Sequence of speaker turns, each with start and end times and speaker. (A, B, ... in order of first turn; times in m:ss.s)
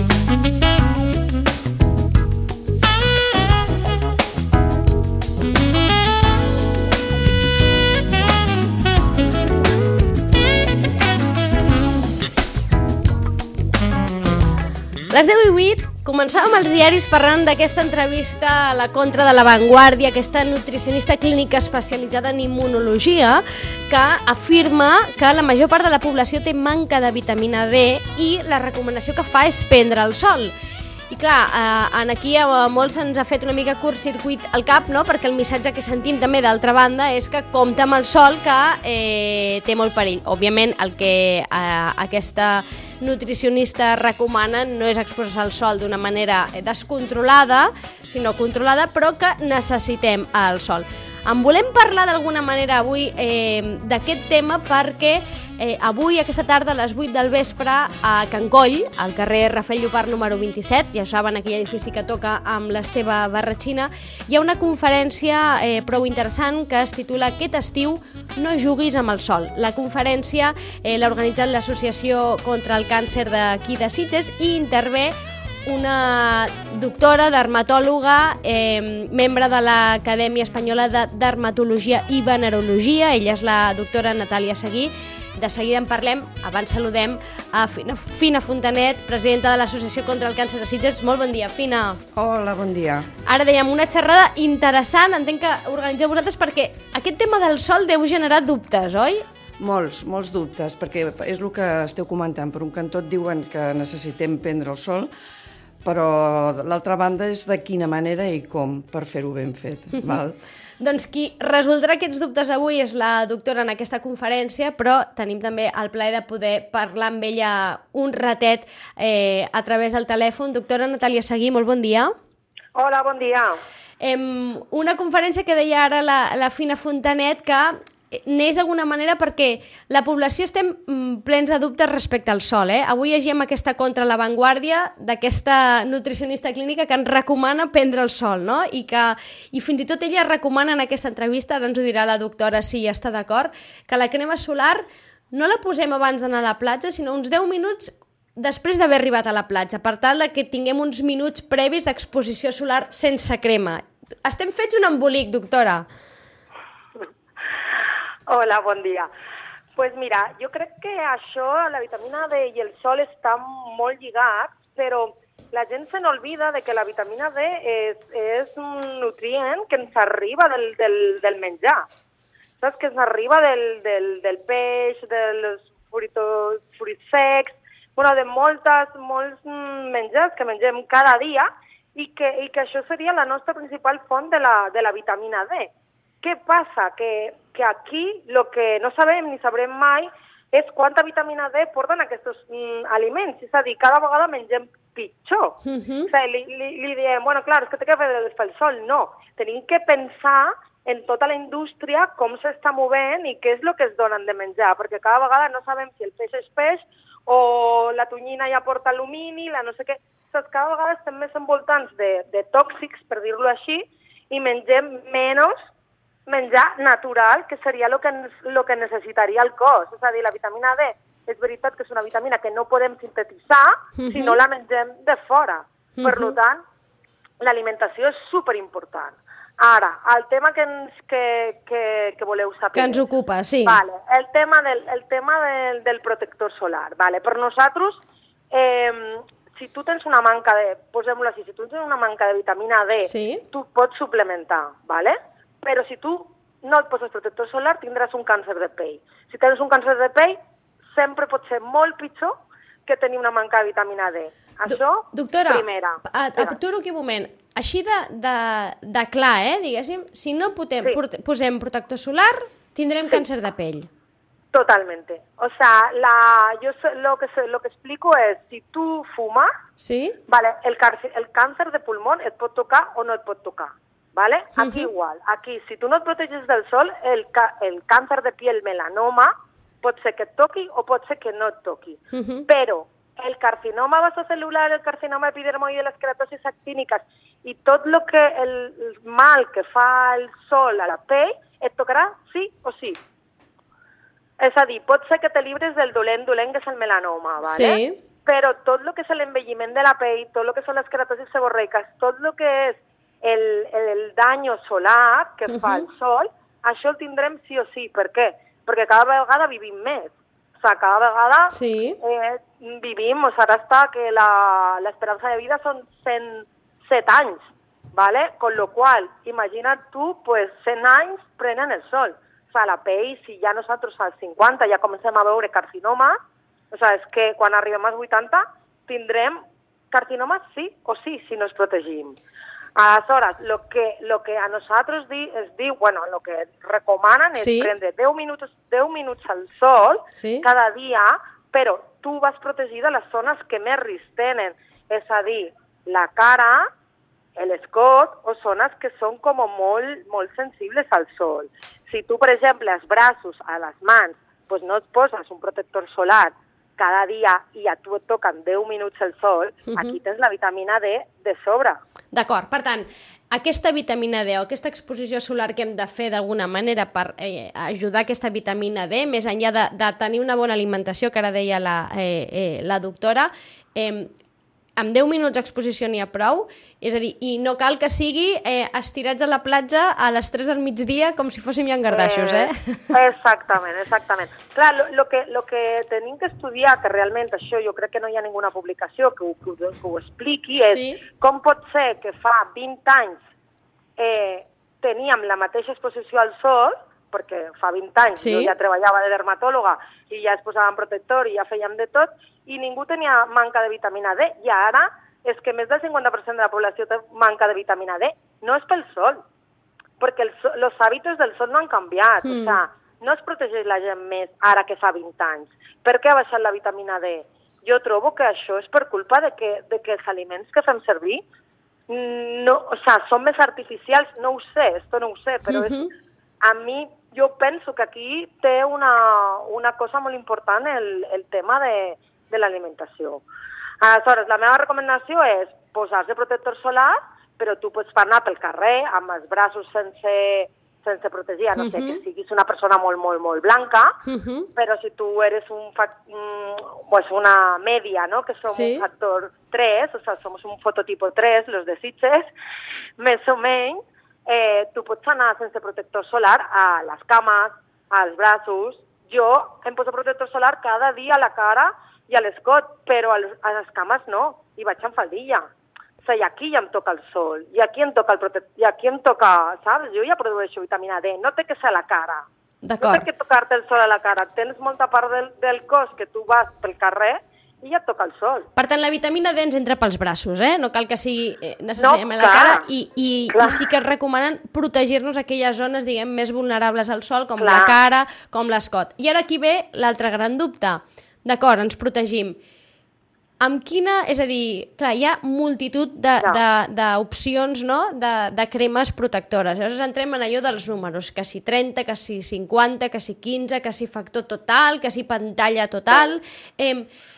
0:15.1-0:30.5 A
0:31.1-1:15.1 A
1:15.6-1:32.0 A
1:32.1-1:33.1 B
1:33.2-1:39.2 A
1:39.6-1:45.1 B
1:45.8-1:50.4 B
1:50.8-2:02.1 A
2:02.8-2:03.6 C
2:04.0-2:35.8 A
2:38.3-2:39.1 C
2:39.8-2:51.8 C
2:52.6-3:05.7 C
3:06.2-3:15.6 C
3:15.6-3:16.1 A
3:16.1-3:35.5 C
3:36.3-3:46.6 C
3:44.0-3:44.4 A
3:46.0-3:46.4 A
3:47.4-3:53.0 C
3:52.7-3:53.8 A
3:53.6-4:10.4 C
4:03.0-4:03.4 A
4:10.9-4:16.6 C
4:14.6-4:23.9 A
4:24.5-4:29.5 C
4:29.8-4:30.2 A
4:30.3-4:53.0 C
4:34.6-4:34.9 A
4:42.1-4:42.5 A
4:54.4-5:17.4 C
4:57.4-4:58.0 A
5:05.5-5:05.9 A
5:11.5-5:12.0 A
5:17.9-5:26.2 C
5:26.7-5:29.4 C
5:29.9-5:32.2 C
5:32.8-5:46.7 C
5:37.4-5:37.7 A
5:40.2-5:40.5 A
5:47.4-6:01.8 C
5:59.7-6:00.0 A
6:02.1-6:14.1 A
6:14.8-6:22.9 A
6:21.9-6:33.2 C
6:30.7-6:31.0 A
6:34.0-6:49.2 C
6:38.2-6:38.5 A
6:50.0-7:01.2 C
6:52.2-6:52.6 A
7:01.9-7:05.8 C
7:05.5-7:05.9 A
7:06.4-7:13.2 C
7:13.8-7:24.0 C
7:21.6-7:22.0 A
7:24.0-7:24.5 A
7:24.6-7:32.3 C
7:28.5-7:28.8 A
7:33.0-7:45.4 C
7:46.0-7:52.2 C
7:52.6-7:53.1 A
7:52.8-7:58.5 C
7:58.6-8:12.4 A
8:01.8-8:02.6 C
8:03.3-8:03.6 C
8:07.4-8:07.8 C
8:13.4-8:26.9 A